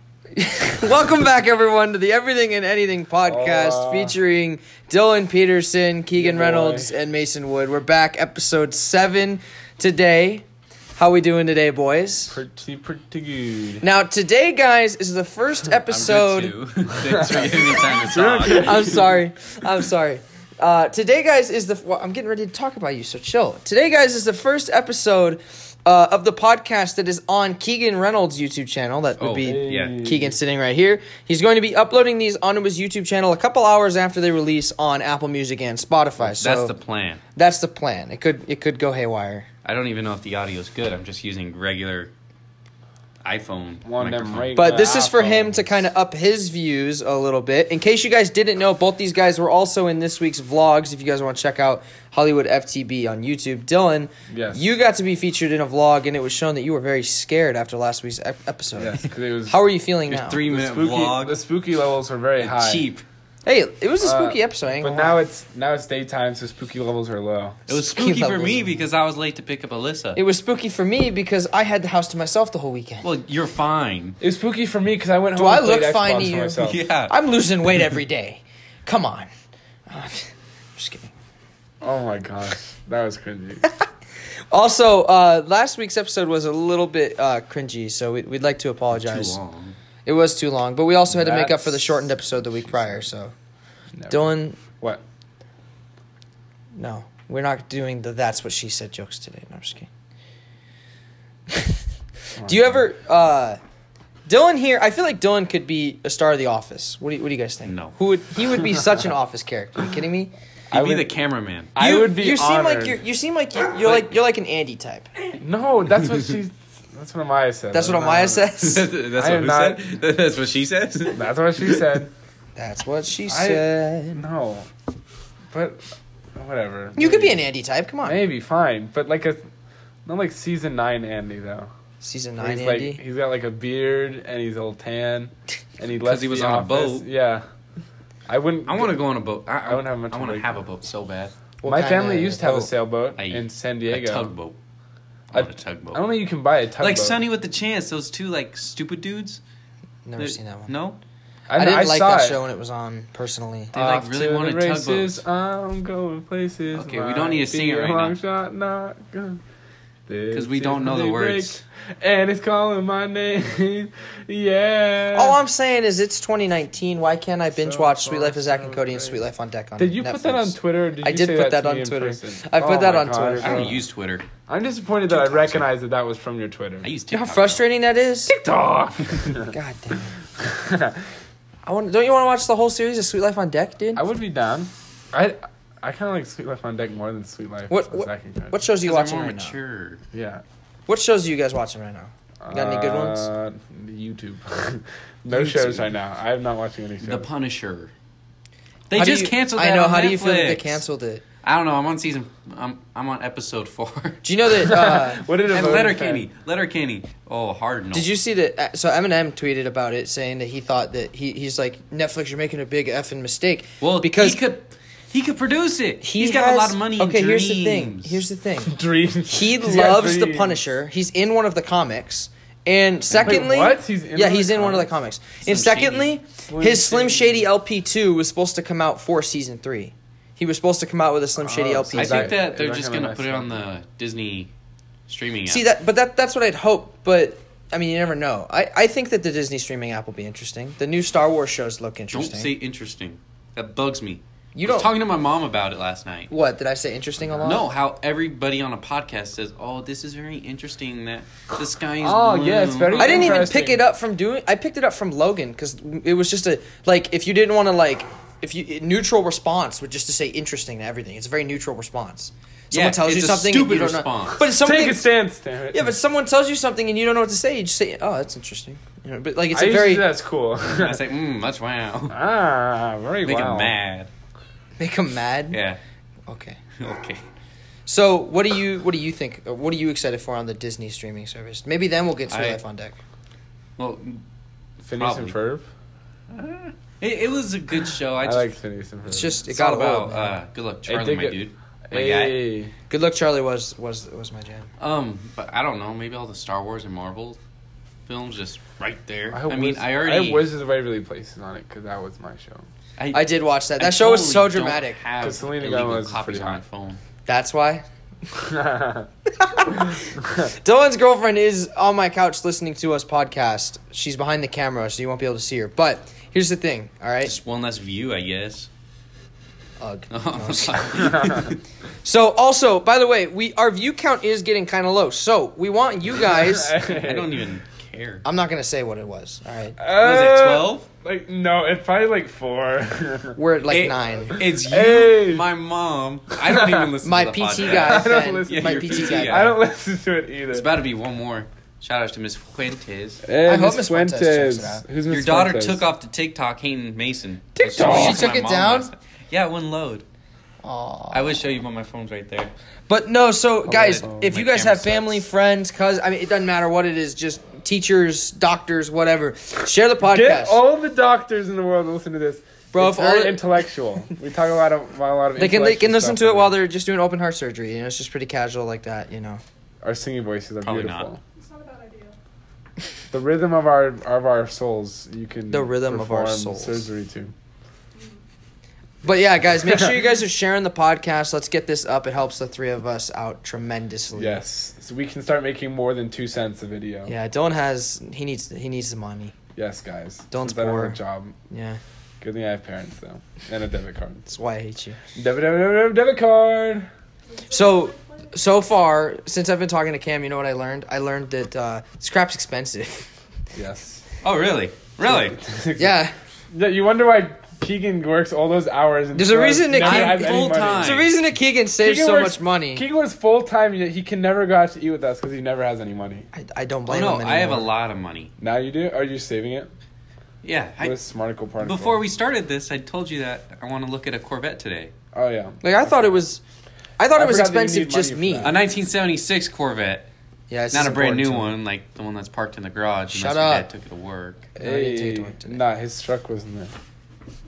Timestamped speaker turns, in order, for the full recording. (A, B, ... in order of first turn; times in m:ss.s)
0:00.3-0:12.4 A
0:03.2-0:04.2 B
0:06.1-0:06.9 B
0:12.3-0:13.8 B
0:13.8-0:16.6 A
0:15.8-0:19.0 C
0:17.0-0:19.2 B
0:18.5-0:36.7 A
0:29.2-0:30.0 C
0:29.4-0:30.4 B
0:36.2-0:37.2 C
0:37.3-0:39.5 A
0:39.6-0:42.1 C
0:43.2-0:44.7 C
0:43.8-0:45.9 B
0:44.5-1:00.4 A
0:54.3-0:54.7 B
0:58.8-0:59.6 B
1:00.1-1:01.4 C
1:00.4-1:02.9 B
1:02.4-1:03.0 C
1:03.4-1:05.2 A
1:04.0-1:07.6 B
1:07.7-1:10.2 C
1:07.7-1:08.8 A
1:10.2-1:13.1 A
1:13.0-1:14.2 C
1:14.2-1:16.8 B
1:15.4-1:19.3 A
1:16.6-1:17.1 C
1:19.9-1:21.1 A
1:21.8-1:23.7 B
1:24.5-1:29.4 A
1:28.9-1:29.8 C
1:30.0-1:33.3 A
1:31.1-1:33.1 B
1:33.9-1:35.0 B
1:34.1-1:34.6 A
1:36.8-1:39.9 A
1:42.4-1:42.8 B
1:42.4-1:43.6 A
1:44.2-1:50.3 A
1:47.6-1:48.0 C
1:50.7-1:51.7 C
1:50.7-1:51.1 B
1:51.8-1:53.0 B
1:51.8-1:55.1 A
1:53.8-1:54.1 C
1:55.4-1:58.5 B
1:57.7-1:58.9 A
1:58.6-2:02.0 C
1:59.1-1:59.8 B
2:01.1-2:02.1 B
2:02.6-2:04.2 A
2:03.3-2:04.7 B
2:05.5-2:05.8 B
2:06.4-2:07.4 B
2:07.0-2:08.2 A
2:08.0-2:09.4 B
2:10.1-2:11.7 B
2:12.0-2:13.0 A
2:12.4-2:17.4 B
2:15.9-2:17.0 C
2:18.3-2:19.0 B
2:18.7-2:21.3 C
2:19.7-2:20.6 B
2:21.6-2:22.7 A
2:21.6-2:24.3 B
2:23.2-2:24.6 C
2:25.3-2:26.1 C
2:25.3-2:27.2 B
2:26.8-2:29.4 C
2:30.0-2:30.7 A
2:30.2-2:31.0 C
2:31.5-2:32.4 B
2:31.5-2:33.7 A
2:33.7-2:35.2 C
2:33.7-2:39.4 B
2:36.7-2:38.2 C
2:40.1-2:45.4 B
2:40.3-2:41.6 C
2:45.2-2:53.8 A
2:47.5-2:49.2 B
2:49.8-2:53.8 B
2:53.4-2:54.3 C
2:54.5-2:56.9 B
2:55.1-2:55.7 C
2:56.8-2:57.6 C
2:57.1-2:58.3 A
2:58.3-2:59.5 B
2:59.4-3:00.2 A
3:00.4-3:01.0 B
3:01.6-3:04.0 A
3:03.9-3:08.6 B
3:07.7-3:09.6 A
3:08.8-3:10.0 C
3:10.1-3:10.4 B
3:10.9-3:13.3 A
3:12.4-3:17.3 B
3:15.3-3:15.9 C
3:17.0-3:17.9 C
3:18.9-3:20.8 C
3:18.9-3:21.2 A
3:21.4-3:24.2 C
3:24.2-3:25.2 A
3:24.6-3:26.2 B
3:25.5-3:28.1 C
3:27.9-3:34.4 A
3:33.8-3:38.2 C
3:36.0-3:38.8 A
3:38.6-3:40.6 B
3:39.3-3:52.4 A
3:43.1-3:43.4 C
3:43.2-3:44.9 B
3:45.4-3:46.2 C
3:46.5-3:47.5 B
3:51.4-3:53.6 B
3:51.9-3:54.5 C
3:55.1-3:55.6 C
3:55.5-4:02.5 A
4:02.1-4:06.3 C
4:04.5-4:04.9 A
4:06.3-4:07.7 A
4:07.4-4:13.5 C
4:12.0-4:13.8 B
4:13.0-4:25.0 A
4:22.7-4:24.4 C
4:24.4-4:25.9 B
4:25.7-4:30.1 A
4:29.5-4:31.0 B
4:30.6-4:32.2 C
4:32.1-4:33.7 B
4:33.2-4:34.1 C
4:34.8-4:35.6 A
4:35.5-4:35.8 C
4:36.3-4:36.6 A
4:36.8-4:37.2 C
4:37.9-4:43.0 A
4:42.3-4:42.6 C
4:43.8-4:44.2 C
4:44.8-4:45.7 B
4:45.0-4:45.4 C
4:46.3-4:48.6 C
4:48.2-4:49.4 B
4:49.1-4:50.4 A
4:49.4-4:52.4 C
4:50.9-4:52.7 B
4:52.9-4:54.7 A
4:54.8-4:57.4 C
4:58.1-5:00.5 C
4:59.3-5:02.6 B
5:03.0-5:07.0 C
5:03.1-5:05.0 A
5:05.2-5:06.6 B
5:07.2-5:07.8 A
5:08.3-5:09.1 B
5:09.4-5:17.3 A
5:17.2-5:18.7 C
5:19.8-5:21.4 A
5:20.1-5:21.6 C
5:21.0-5:21.5 B
5:22.0-5:26.8 A
5:26.1-5:27.5 B
5:26.9-5:28.2 C
5:28.2-5:29.8 A
5:29.8-5:33.4 B
5:30.0-5:30.9 C
5:33.4-5:34.4 A
5:33.7-5:39.6 C
5:34.4-5:35.4 B
5:36.4-5:36.9 B
5:37.0-5:39.5 A
5:37.6-5:40.7 B
5:40.5-5:43.2 C
5:43.2-5:45.9 B
5:43.4-5:44.8 A
5:45.1-5:50.0 C
5:47.6-5:48.9 A
5:47.6-5:48.3 B
5:50.6-5:51.4 A
5:51.1-5:52.5 C
5:52.9-6:00.6 A
5:53.6-5:54.2 B
5:53.8-5:55.2 C
6:00.0-6:06.6 B
6:02.7-6:03.4 A
6:05.4-6:09.4 A
6:09.8-6:11.2 B
6:10.6-6:11.1 C
6:11.3-6:12.2 D
6:13.1-6:17.3 B
6:15.5-6:16.9 A
6:17.9-6:18.2 D
6:19.0-6:24.4 A
6:19.6-6:19.9 B
6:24.1-6:27.1 B
6:27.1-6:29.3 A
6:29.6-6:31.4 B
6:30.3-6:31.0 A
6:31.5-6:31.8 A
6:32.2-6:34.2 B
6:34.3-6:35.0 A
6:35.1-6:36.9 B
6:37.3-6:38.3 D
6:37.5-6:43.1 A
6:43.5-6:44.0 B
6:44.2-6:45.4 C
6:45.0-6:51.1 B
6:45.8-6:46.1 A
6:49.1-6:52.8 A
6:49.8-6:51.1 C
6:51.8-6:56.3 B
6:56.3-6:57.7 A
6:56.9-6:58.3 C
6:58.4-6:59.7 B
7:00.4-7:01.0 C
7:00.8-7:02.0 B
7:01.6-7:04.9 C
7:05.1-7:06.2 B
7:05.6-7:06.4 A
7:07.0-7:08.6 A
7:07.1-7:08.6 B
7:08.4-7:10.1 C
7:10.5-7:11.5 A
7:10.7-7:14.5 C
7:13.1-7:13.7 A
7:14.6-7:15.6 A
7:14.6-7:16.7 B